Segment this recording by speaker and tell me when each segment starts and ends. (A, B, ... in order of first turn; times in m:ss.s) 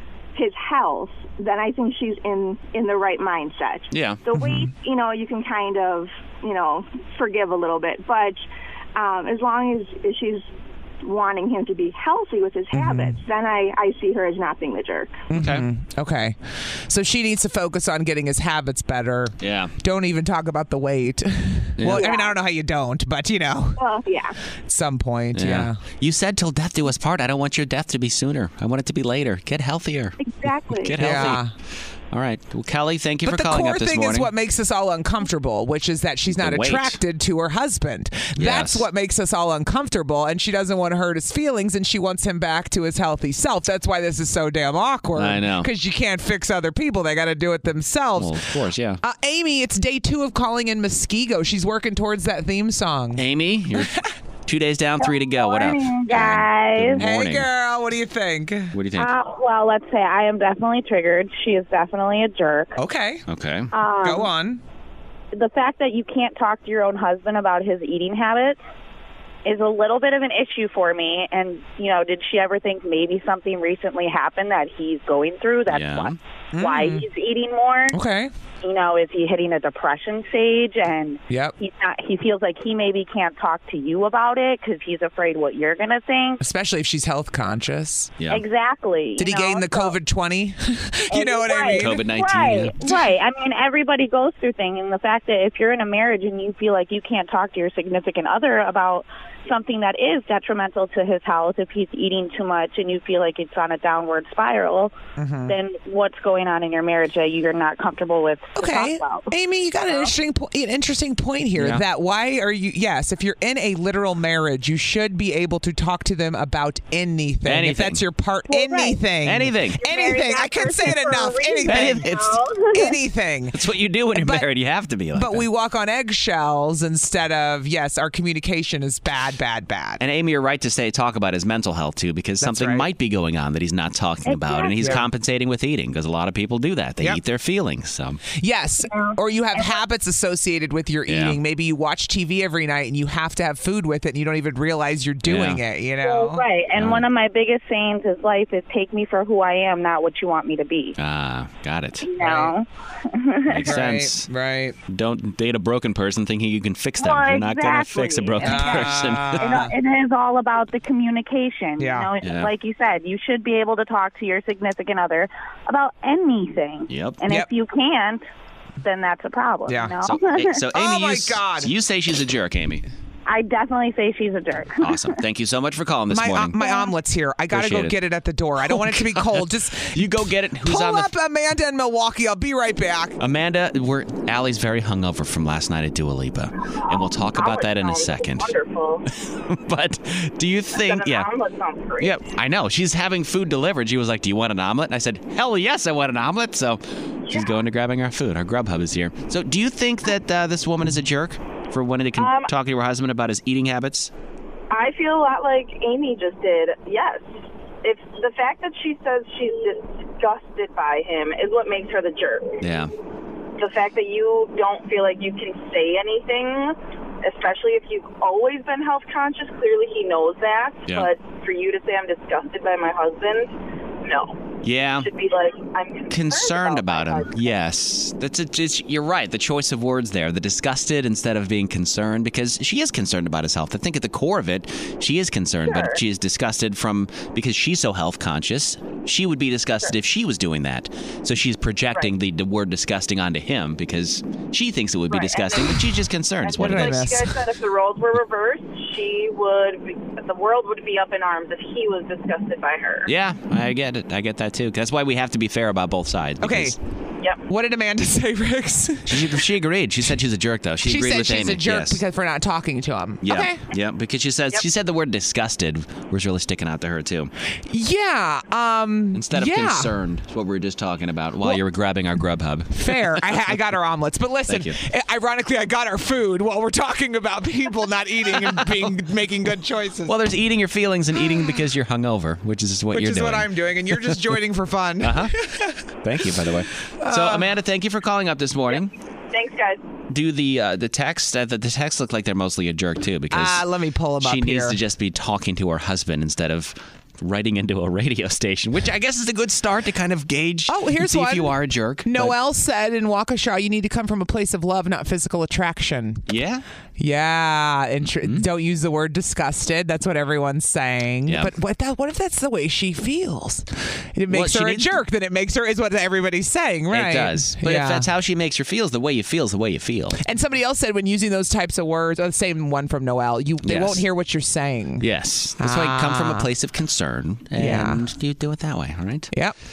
0:00.3-0:08.4 A
0:03.9-0:04.2 B
0:04.3-0:04.7 C
0:08.9-0:10.5 A
0:11.0-0:15.1 A
0:12.7-0:13.2 C
0:15.3-0:16.4 C
0:15.3-0:15.6 B
0:16.9-0:23.8 C
0:19.4-0:19.7 B
0:21.8-0:22.0 B
0:21.9-0:22.3 A
0:23.8-0:24.4 A
0:24.7-0:25.8 C
0:25.3-0:31.4 B
0:30.2-0:31.0 A
0:31.0-0:31.5 C
0:32.1-0:34.3 B
0:33.2-0:53.2 C
0:36.3-0:37.0 B
0:38.4-0:38.8 B
0:45.2-0:45.7 B
0:48.2-0:49.0 B
0:53.2-0:57.5 B
0:53.8-0:54.1 C
0:56.9-0:58.7 C
0:58.7-0:59.1 B
0:59.5-1:02.6 D
1:02.8-1:03.2 C
1:03.3-1:03.7 B
1:04.0-1:04.6 C
1:05.6-1:06.2 D
1:09.5-1:11.6 D
1:14.8-1:15.2 E
1:15.7-1:16.2 B
1:16.5-1:17.1 C
1:17.9-1:18.3 C
1:19.6-1:21.0 D
1:21.9-1:22.4 D
1:25.8-1:26.2 D
1:26.4-1:28.1 C
1:28.2-1:28.4 B
1:28.7-1:29.0 D
1:29.2-1:32.0 C
1:31.2-1:31.7 E
1:31.7-1:32.8 B
1:33.3-1:39.0 D
1:39.7-1:44.9 D
1:45.2-1:45.6 C
1:45.6-1:48.4 D
1:48.5-2:02.1 C
1:51.6-1:51.8 B
1:57.4-1:58.0 B
1:58.5-1:59.0 E
1:59.2-1:59.8 B
1:59.8-2:03.0 E
2:01.6-2:02.4 B
2:02.7-2:03.6 C
2:03.5-2:05.4 B
2:04.1-2:04.5 C
2:05.1-2:10.0 C
2:10.0-2:18.2 B
2:12.4-2:12.9 C
2:14.8-2:15.0 C
2:18.3-2:26.4 C
2:21.1-2:21.4 B
2:25.2-2:25.6 B
2:26.7-2:27.1 B
2:26.8-2:30.9 D
2:31.0-2:32.1 B
2:32.2-2:32.5 C
2:33.5-2:34.3 B
2:33.6-2:34.8 C
2:34.9-2:39.7 B
2:38.4-2:38.8 E
2:38.4-2:39.7 C
2:40.0-2:41.8 D
2:41.8-2:42.1 C
2:42.2-2:42.5 B
2:42.5-2:46.8 D
2:46.9-2:47.2 B
2:47.2-2:47.5 C
2:47.4-2:48.2 D
2:48.8-2:50.4 D
2:49.6-2:50.0 C
2:50.0-2:52.8 B
2:50.7-2:51.7 C
2:53.3-2:54.7 D
2:54.8-2:56.8 B
2:56.1-3:03.2 C
2:57.5-2:58.0 B
2:58.6-3:01.1 B
3:03.2-3:08.6 B
3:07.3-3:09.0 E
3:09.2-3:11.3 B
3:10.7-3:12.1 E
3:12.0-3:24.1 B
3:22.2-3:22.5 E
3:26.4-3:27.1 E
3:27.8-3:32.3 E
3:32.6-3:32.9 B
3:33.6-3:36.7 E
3:37.2-3:43.5 E
3:40.8-3:41.1 B
3:44.0-3:44.3 E
3:44.6-3:45.1 B
3:45.0-3:47.4 E
3:46.1-4:07.0 B
3:55.7-3:55.9 E
4:05.1-4:05.7 E
4:06.4-4:13.1 E
4:06.6-4:07.4 C
4:13.0-4:16.8 B
4:16.4-4:16.8 C
4:17.5-4:19.4 C
4:19.1-4:22.0 B
4:20.8-4:23.6 C
4:23.2-4:27.3 B
4:27.7-4:29.9 C
4:29.1-4:33.5 B
4:32.7-4:40.1 C
4:34.5-4:34.8 B
4:38.3-4:38.9 B
4:40.0-4:44.4 B
4:41.2-4:41.5 C
4:42.9-4:45.8 C
4:45.0-4:45.4 B
4:46.0-4:48.9 B
4:47.0-4:47.5 C
4:49.4-4:49.8 E
4:50.1-4:53.6 B
4:53.3-4:54.8 C
4:54.2-5:02.3 B
5:00.7-5:06.2 C
5:06.3-5:06.6 B
5:07.0-5:18.1 C
5:08.2-5:08.4 B
5:11.3-5:11.5 B
5:14.3-5:15.0 B
5:16.9-5:20.2 B
5:20.2-5:25.0 C
5:23.6-5:24.0 B
5:25.0-5:29.3 B
5:25.6-5:26.5 C
5:27.6-5:28.0 C